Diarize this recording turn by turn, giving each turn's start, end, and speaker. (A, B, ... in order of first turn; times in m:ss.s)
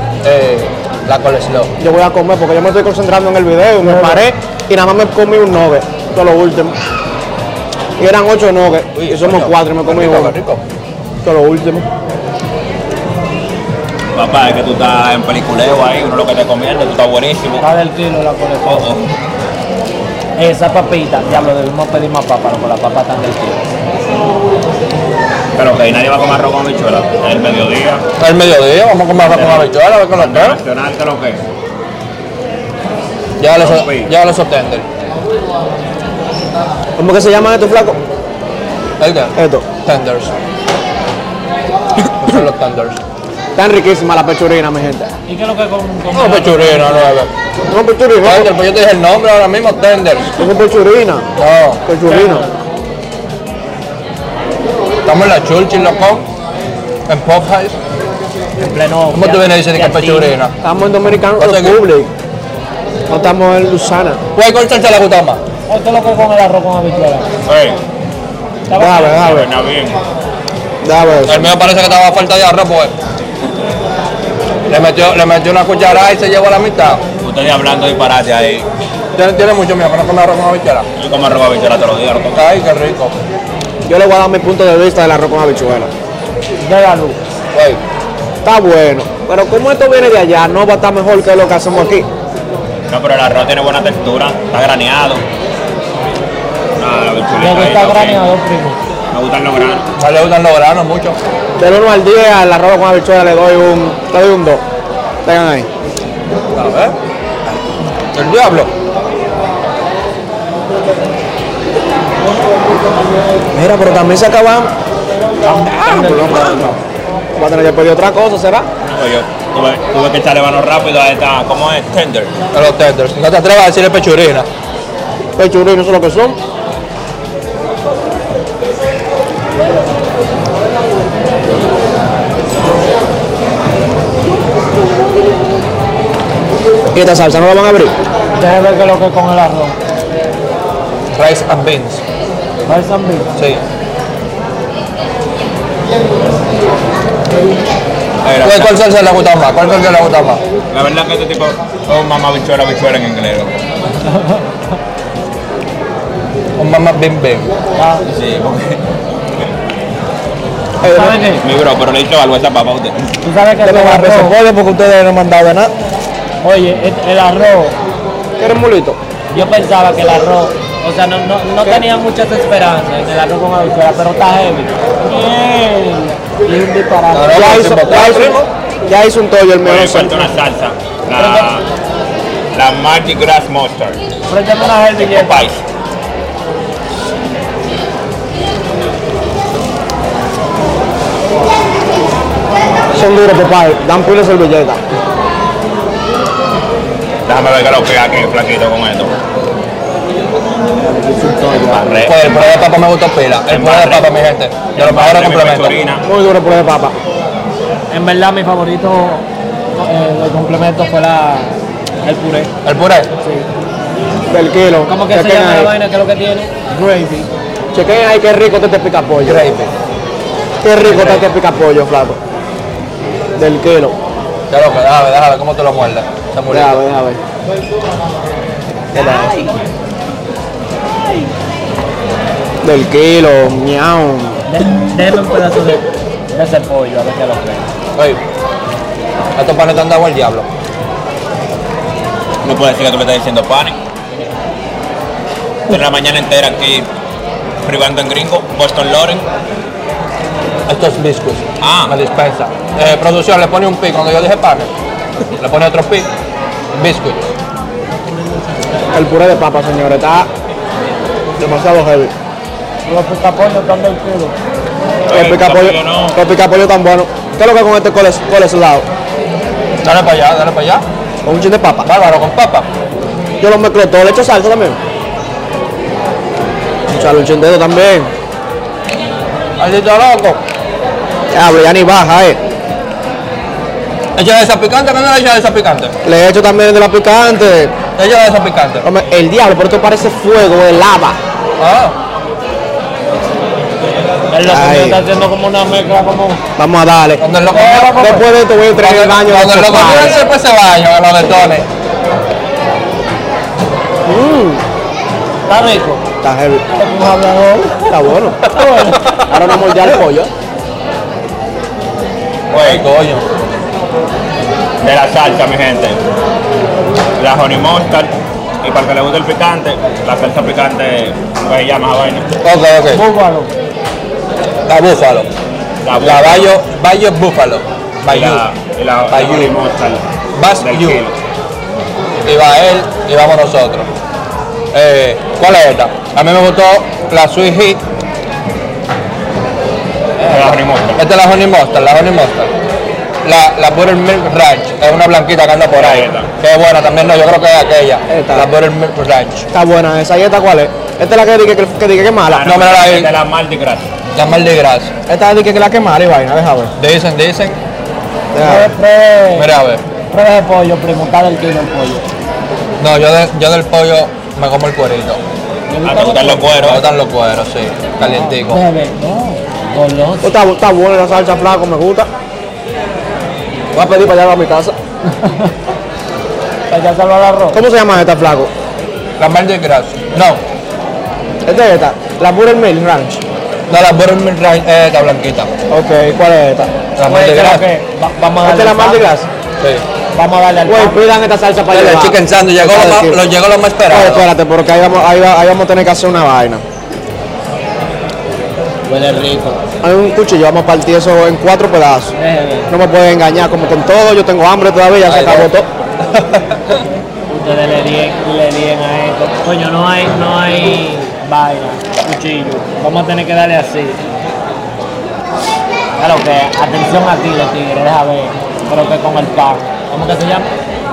0:00.2-0:01.7 A
0:01.8-0:06.8 B
0:03.8-0:04.2 C
0:08.0-0:10.4 B
0:09.0-0:10.6 A
0:11.2-0:11.9 B
0:14.2-0:17.6 D
0:17.6-0:18.9 C
0:18.6-0:19.2 D
0:20.4-0:23.6 C
0:25.6-0:28.1 D
0:28.2-0:30.6 A
0:29.2-0:31.4 D
0:33.4-0:34.9 A
0:33.6-0:34.1 D
0:37.0-0:38.0 B
0:39.0-0:40.3 A
0:39.4-0:39.7 B
0:42.2-0:43.0 A
0:43.6-0:45.1 B
0:45.3-0:47.2 C
0:46.1-0:47.3 A
0:47.7-0:48.5 B
0:48.2-0:50.4 A
0:50.4-0:51.3 B
0:51.4-0:51.8 A
0:51.9-0:52.5 B
0:52.1-0:52.5 C
0:55.0-0:56.2 A
0:57.1-0:57.8 A
0:58.6-1:00.3 C
0:59.1-1:00.6 A
1:00.6-1:02.1 B
1:01.4-1:01.8 A
1:03.1-1:04.2 B
1:04.4-1:05.4 A
1:05.7-1:07.3 C
1:07.5-1:07.8 D
1:08.7-1:09.2 C
1:08.8-1:09.5 B
1:09.1-1:10.0 D
1:10.8-1:11.5 B
1:11.3-1:12.9 A
1:14.7-1:17.0 A
1:17.2-1:18.7 D
1:19.2-1:20.9 A
1:21.0-1:22.4 D
1:22.3-1:23.2 A
1:23.9-1:25.9 B
1:26.6-1:27.2 C
1:27.5-1:27.8 A
1:28.4-1:32.1 B
1:32.9-1:35.2 D
1:36.8-1:38.2 D
1:37.4-1:38.8 C
1:39.1-1:39.8 D
1:40.0-1:41.2 A
1:41.6-1:44.6 B
1:45.2-1:45.7 B
1:46.5-1:47.0 A
1:48.1-1:48.7 A
1:53.5-1:54.7 B
1:55.5-1:56.3 C
1:55.7-1:56.7 A
1:55.7-1:56.8 B
1:57.4-1:58.7 B
1:58.9-2:02.3 D
2:02.5-2:04.5 A
2:05.4-2:06.4 B
2:16.9-2:18.0 B
2:18.4-2:19.8 C
2:21.1-2:22.0 A
2:22.7-2:23.3 C
2:23.4-2:23.6 A
2:28.2-2:28.7 D
2:28.4-2:30.4 A
2:30.7-2:33.6 D
2:34.0-2:34.6 C
2:36.6-2:37.6 A
2:37.8-2:38.0 C
2:38.1-2:38.8 D
2:40.8-2:41.2 B
2:40.9-2:41.4 C
2:41.4-2:43.2 D
2:43.2-2:44.4 C
2:43.6-2:45.7 B
2:46.4-2:47.8 C
2:48.4-2:49.0 B
2:49.3-2:57.5 C
2:57.1-2:58.5 A
2:57.3-3:00.3 B
2:59.6-3:01.6 D
3:01.2-3:01.5 C
3:02.5-3:04.0 D
3:04.3-3:05.5 C
3:04.6-3:05.6 D
3:12.9-3:14.8 B
3:17.3-3:19.2 D
3:20.8-3:22.0 C
3:21.6-3:22.6 D
3:22.1-3:25.8 A
3:23.5-3:24.1 D
3:24.8-3:26.0 D
3:26.0-3:26.9 B
3:27.9-3:32.5 C
3:32.6-3:33.1 A
3:34.3-3:35.7 B
3:34.9-3:37.3 C
3:37.7-3:39.4 B
3:39.2-3:39.7 A
3:40.6-3:42.2 B
3:40.8-3:41.3 A
3:43.4-3:44.0 B
3:44.5-3:46.8 A
3:46.5-3:47.2 B
3:48.9-3:49.4 B
3:49.0-3:49.5 C
3:52.6-3:54.4 B
3:54.5-3:57.7 C
3:59.4-4:00.5 A
4:02.4-4:03.8 D
4:05.7-4:06.9 D
4:07.6-4:09.2 D
4:10.7-4:14.7 A
4:11.6-4:12.0 D
4:15.4-4:16.1 A
4:16.7-4:17.3 A
4:18.9-4:20.3 B
4:21.4-4:22.1 B
4:22.9-4:24.4 C
4:25.1-4:26.2 D
4:25.1-4:28.9 B
4:29.8-4:30.8 A
4:31.2-4:31.9 B
4:31.8-4:32.7 A
4:33.4-4:34.8 B
4:36.9-4:38.1 B
4:39.6-4:40.4 A
4:41.3-4:42.4 B
4:44.2-4:46.0 A
4:46.0-4:47.8 B
4:48.0-4:48.8 A
4:48.8-4:51.2 B
4:51.6-4:52.0 A
4:54.3-4:56.4 C
4:54.4-4:55.0 B
4:56.6-4:57.2 B
4:57.2-4:58.0 A
4:57.5-4:58.3 C
4:58.0-5:00.2 B
4:58.7-5:01.7 A
5:04.1-5:04.6 B
5:05.5-5:06.0 C
5:06.2-5:06.6 B
5:06.7-5:07.9 C
5:07.9-5:08.4 B
5:08.5-5:09.1 C
5:08.6-5:09.7 A
5:09.3-5:10.3 B
5:12.5-5:12.8 D
5:12.5-5:13.3 A
5:14.8-5:16.0 D
5:17.2-5:18.1 D
5:18.6-5:22.3 D
5:22.4-5:23.0 A
5:22.9-5:23.5 C
5:24.7-5:25.3 A
5:25.8-5:26.5 D
5:26.0-5:28.4 A
5:28.1-5:30.0 D
5:29.1-5:29.6 A
5:30.4-5:31.0 A
5:30.6-5:31.2 D
5:32.2-5:33.9 A
5:34.7-5:37.8 A
5:40.2-5:42.5 A
5:40.2-5:41.0 D
5:43.2-5:49.5 A
5:45.7-5:46.3 D
5:48.1-5:48.5 B
5:49.5-5:52.5 B
5:52.3-5:53.9 D
5:52.4-5:53.1 A
5:54.1-5:54.9 A
5:55.1-5:56.7 B
5:56.8-5:57.6 A
5:58.3-5:58.7 B
5:58.4-5:59.5 C
5:59.3-5:59.8 A
6:00.1-6:02.1 C
6:02.8-6:05.2 A
6:05.7-6:06.5 C
6:05.8-6:06.8 D
6:06.6-6:08.6 A
6:08.0-6:10.3 C
6:10.2-6:12.1 B
6:13.7-6:14.8 B
6:15.2-6:15.5 C
6:16.7-6:17.6 C
6:17.5-6:18.5 B
6:19.2-6:20.4 A
6:21.4-6:23.2 B
6:23.7-6:25.5 A
6:25.7-6:26.7 B
6:27.0-6:27.6 A
6:27.0-6:29.1 C
6:28.4-6:29.3 B
6:30.2-6:31.0 C
6:30.7-6:33.2 B
6:31.7-6:34.3 A
6:33.9-6:36.6 B
6:38.9-6:39.6 C
6:39.8-6:42.1 B
6:42.2-6:42.7 C
6:42.7-6:45.7 B
6:45.1-6:45.4 D
6:46.0-6:46.8 A
6:47.3-6:54.0 C
6:56.0-7:00.5 C